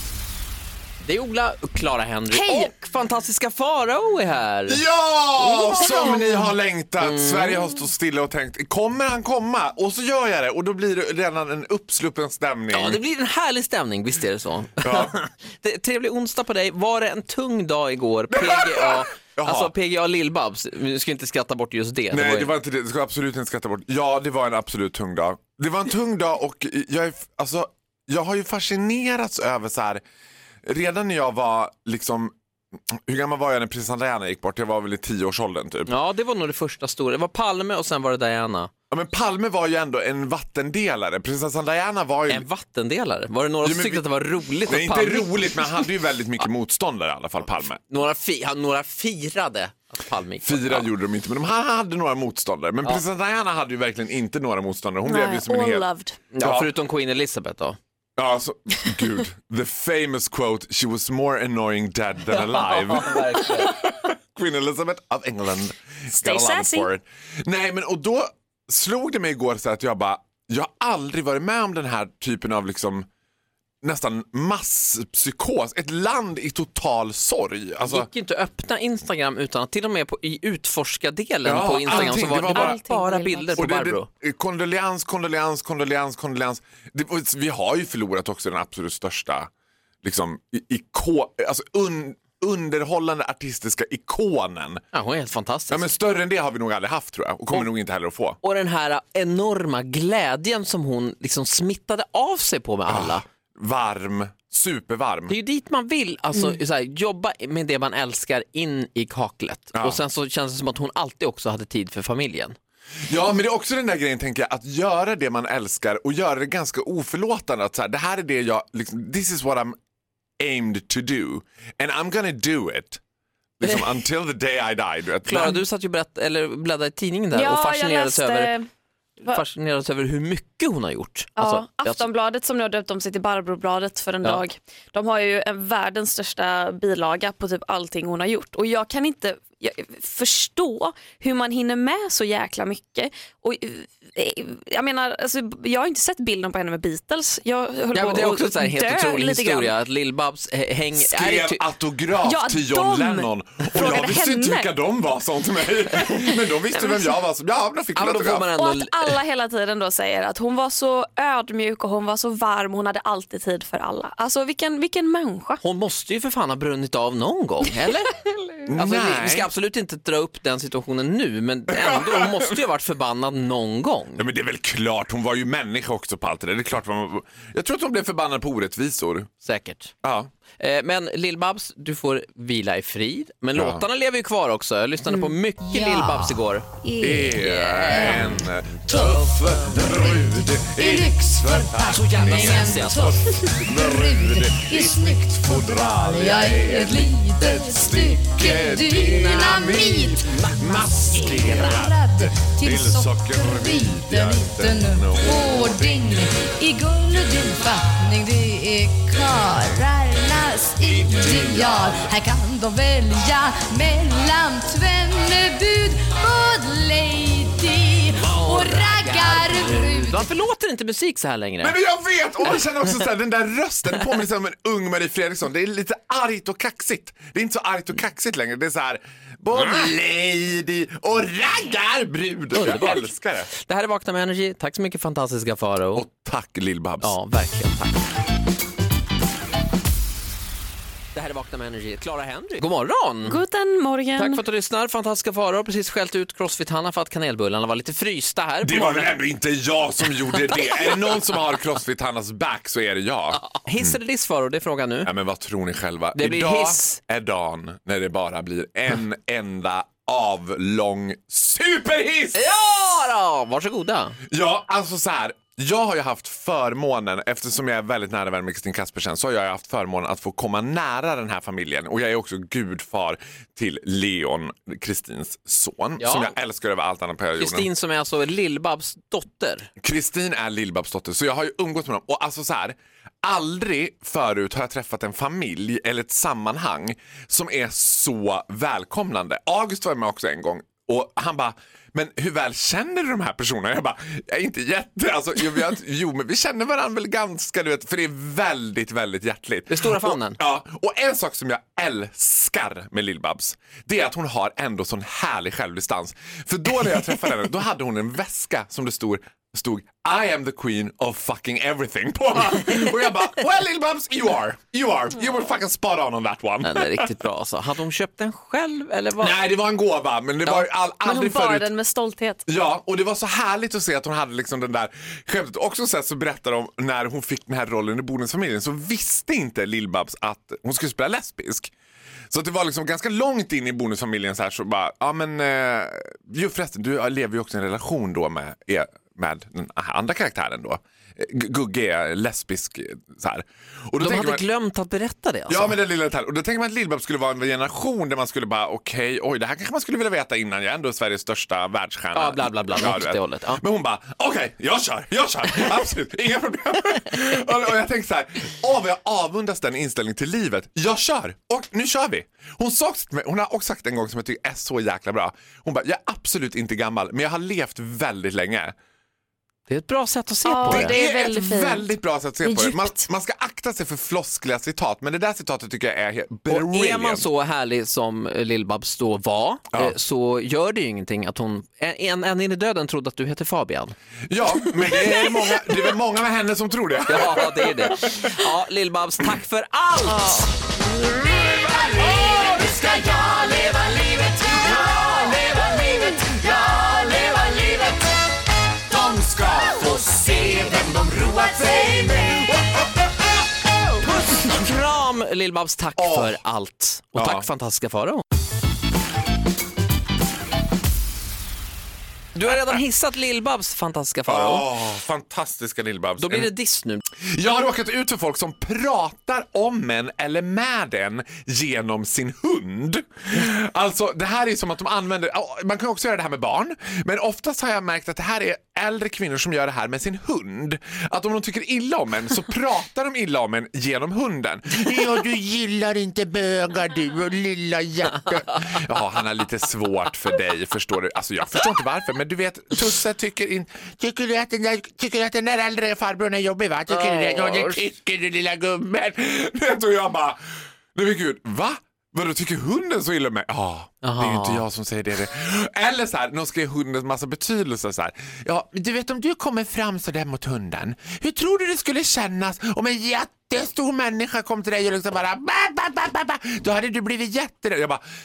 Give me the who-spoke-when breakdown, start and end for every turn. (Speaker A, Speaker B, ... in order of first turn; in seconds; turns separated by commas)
Speaker A: 1.0-4.8, Speaker B: 2.3-2.7, Speaker C: 4.7-13.0, Speaker A: 5.4-6.5, Speaker A: 7.0-7.7, Speaker A: 12.7-22.6, Speaker C: 14.8-15.2, Speaker C: 18.3-19.7, Speaker C: 22.1-30.0, Speaker C: 30.6-32.4, Speaker C: 32.9-35.9, Speaker A: 35.9-38.7, Speaker C: 38.9-42.5, Speaker A: 42.3-45.9, Speaker C: 43.6-44.1, Speaker C: 44.6-47.8, Speaker A: 47.9-50.9, Speaker C: 50.4-55.9, Speaker B: 55.0-56.2, Speaker A: 56.3-57.8, Speaker C: 56.4-56.7, Speaker C: 58.2-73.1, Speaker A: 62.3-63.8, Speaker B: 66.2-66.9, Speaker C: 73.8-78.1, Speaker A: 77.8-84.1, Speaker C: 81.5-82.8, Speaker B: 81.9-83.6, Speaker C: 83.6-89.5, Speaker C: 90.0-94.8, Speaker A: 94.9-95.9, Speaker C: 95.7-98.4, Speaker A: 98.4-103.2, Speaker C: 102.9-105.4, Speaker A: 105.3-112.6, Speaker C: 109.7-110.0, Speaker C: 113.1-119.8, Speaker C: 120.4-123.0, Speaker C: 123.6-125.6, Speaker A: 123.6-123.9, Speaker A: 125.3-128.5, Speaker B: 127.3-128.7, Speaker A: 129.2-132.1, Speaker B: 131.4-149.7, Speaker A: 147.9-151.6, Speaker C: 151.0-158.5, Speaker B: 152.2-154.7, Speaker B: 156.7-157.2, Speaker A: 157.9-159.1, Speaker B: 158.6-165.6, Speaker A: 165.6-168.1, Speaker C: 168.7-169.5, Speaker A: 168.8-174.2, Speaker C: 171.7-172.6, Speaker C: 174.2-179.3, Speaker A: 179.4-179.9, Speaker C: 180.0-180.3, Speaker A: 180.6-186.7, Speaker C: 183.5-183.9, Speaker D: 185.6-220.3, Speaker C: 187.0-206.1, Speaker A: 187.3-188.4, Speaker A: 191.9-193.2, Speaker A: 200.3-201.7, Speaker C: 210.9-212.1, Speaker A: 218.2-221.8, Speaker C: 221.6-233.5, Speaker A: 232.5-236.1, Speaker C: 235.9-237.2, Speaker A: 237.0-238.0, Speaker A: 241.2-243.4, Speaker B: 243.2-244.4, Speaker A: 244.2-249.2, Speaker C: 248.6-254.0, Speaker A: 253.6-255.1, Speaker C: 255.0-262.4, Speaker A: 256.1-257.0, Speaker A: 262.3-264.2, Speaker C: 264.3-277.7, Speaker A: 276.0-276.3, Speaker A: 277.4-279.7, Speaker C: 279.8-317.1, Speaker A: 299.7-300.4, Speaker A: 316.6-319.4, Speaker C: 319.2-321.7, Speaker B: 321.0-322.4, Speaker C: 322.5-331.7, Speaker C: 332.3-344.4, Speaker A: 344.0-345.8, Speaker C: 345.5-368.8, Speaker A: 352.1-353.6, Speaker A: 369.7-371.0, Speaker B: 370.4-371.9, Speaker C: 370.6-377.3, Speaker B: 372.4-373.1, Speaker A: 376.5-383.9, Speaker C: 384.3-388.3, Speaker A: 387.1-390.5, Speaker C: 390.8-398.1, Speaker C: 398.9-403.3, Speaker A: 404.0-408.2, Speaker C: 406.0-406.4, Speaker C: 407.1-407.5, Speaker A: 412.4-414.7, Speaker C: 412.5-412.8, Speaker C: 414.3-416.5, Speaker A: 416.2-417.0, Speaker C: 417.2-450.4, Speaker A: 446.9-447.8, Speaker C: 450.9-468.0, Speaker A: 454.0-454.6